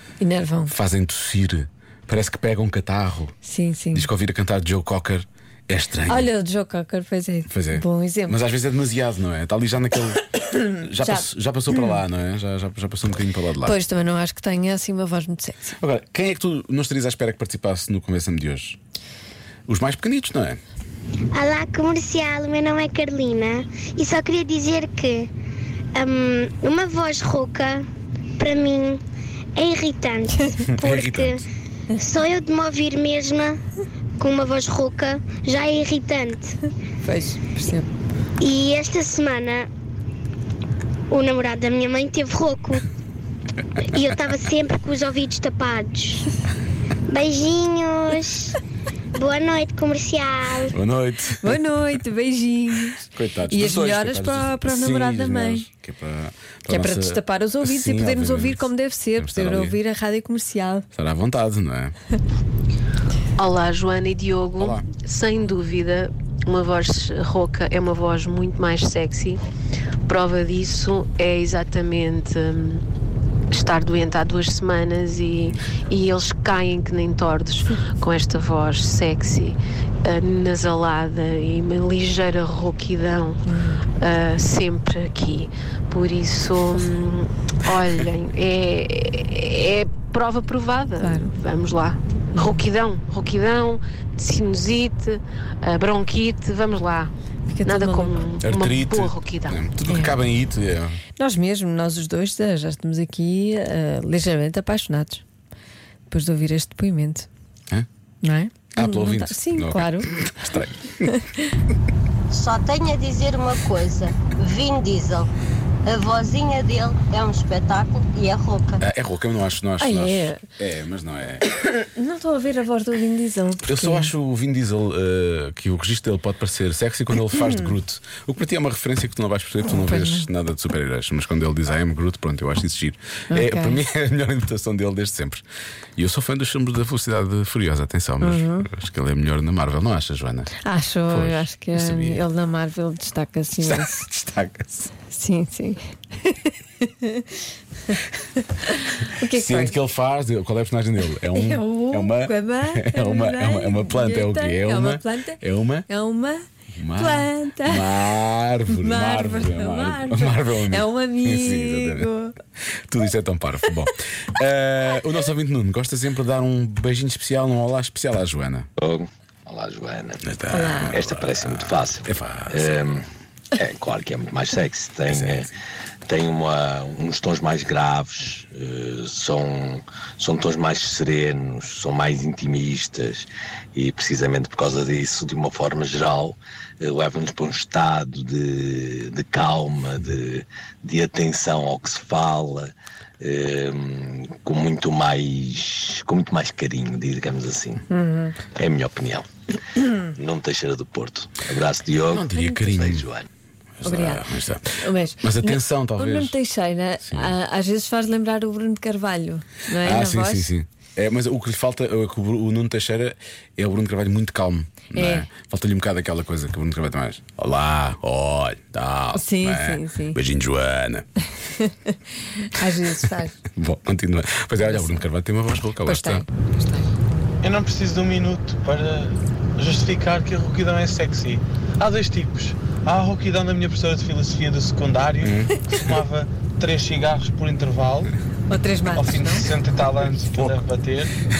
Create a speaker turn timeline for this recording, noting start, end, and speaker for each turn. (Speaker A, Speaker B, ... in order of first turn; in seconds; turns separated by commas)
Speaker A: 0.2-0.7, Speaker B: 0.7-3.3, Speaker A: 3.4-4.1, Speaker B: 3.9-6.3, Speaker A: 6.1-8.4, Speaker B: 7.5-13.8, Speaker A: 11.0-12.0, Speaker A: 13.6-15.7, Speaker B: 15.8-18.8, Speaker B: 19.7-20.6, Speaker C: 21.3-25.3, Speaker C: 25.9-27.9, Speaker C: 28.4-29.0, Speaker C: 29.6-31.4, Speaker B: 30.7-31.4, Speaker C: 31.9-33.6, Speaker C: 34.2-36.5, Speaker A: 37.0-37.9, Speaker C: 38.4-39.7, Speaker C: 41.1-42.8, Speaker C: 43.8-46.3, Speaker C: 47.1-48.6, Speaker C: 49.1-50.8, Speaker B: 50.7-51.6, Speaker A: 51.4-55.7, Speaker B: 53.0-59.8, Speaker A: 56.7-60.9, Speaker B: 60.9-61.9, Speaker D: 63.4-69.4, Speaker B: 64.6-64.9, Speaker D: 70.1-72.8, Speaker D: 73.5-83.4, Speaker A: 83.5-83.8, Speaker D: 84.0-97.1, Speaker A: 91.0-91.3, Speaker A: 97.5-98.2, Speaker D: 97.6-99.6, Speaker B: 98.4-101.0, Speaker A: 99.9-100.2, Speaker A: 101.2-105.2, Speaker A: 106.1-107.3, Speaker A: 108.2-110.1, Speaker B: 108.8-111.0, Speaker E: 112.3-115.3, Speaker E: 115.8-118.8, Speaker B: 118.8-121.4, Speaker A: 119.8-120.4, Speaker A: 121.7-124.1, Speaker B: 123.7-135.4, Speaker A: 127.4-127.7, Speaker A: 129.7-130.3, Speaker A: 133.3-133.8, Speaker B: 136.0-140.5, Speaker A: 138.2-138.7, Speaker A: 140.6-144.1, Speaker B: 141.1-142.2, Speaker B: 143.6-144.7, Speaker A: 144.9-149.8, Speaker B: 149.2-155.9, Speaker A: 151.3-158.1, Speaker B: 156.8-162.1, Speaker A: 158.7-162.3, Speaker B: 162.9-168.7, Speaker F: 168.8-170.2, Speaker B: 170.2-172.7, Speaker A: 170.5-171.0, Speaker F: 170.9-173.0, Speaker F: 173.6-175.5, Speaker B: 175.1-175.5, Speaker F: 176.1-197.8, Speaker A: 197.9-198.4, Speaker F: 198.5-199.2, Speaker F: 200.1-203.3, Speaker B: 202.1-203.1, Speaker A: 202.3-202.8, Speaker B: 203.8-206.3, Speaker A: 203.8-210.5, Speaker B: 207.1-207.3, Speaker B: 209.8-221.1, Speaker A: 214.9-215.3, Speaker A: 219.1-220.2, Speaker A: 221.6-223.4, Speaker B: 223.6-226.2, Speaker A: 224.6-225.0, Speaker A: 225.8-226.9, Speaker G: 227.4-238.1, Speaker B: 235.2-235.8, Speaker A: 238.5-239.4, Speaker G: 238.9-241.1, Speaker B: 240.3-240.6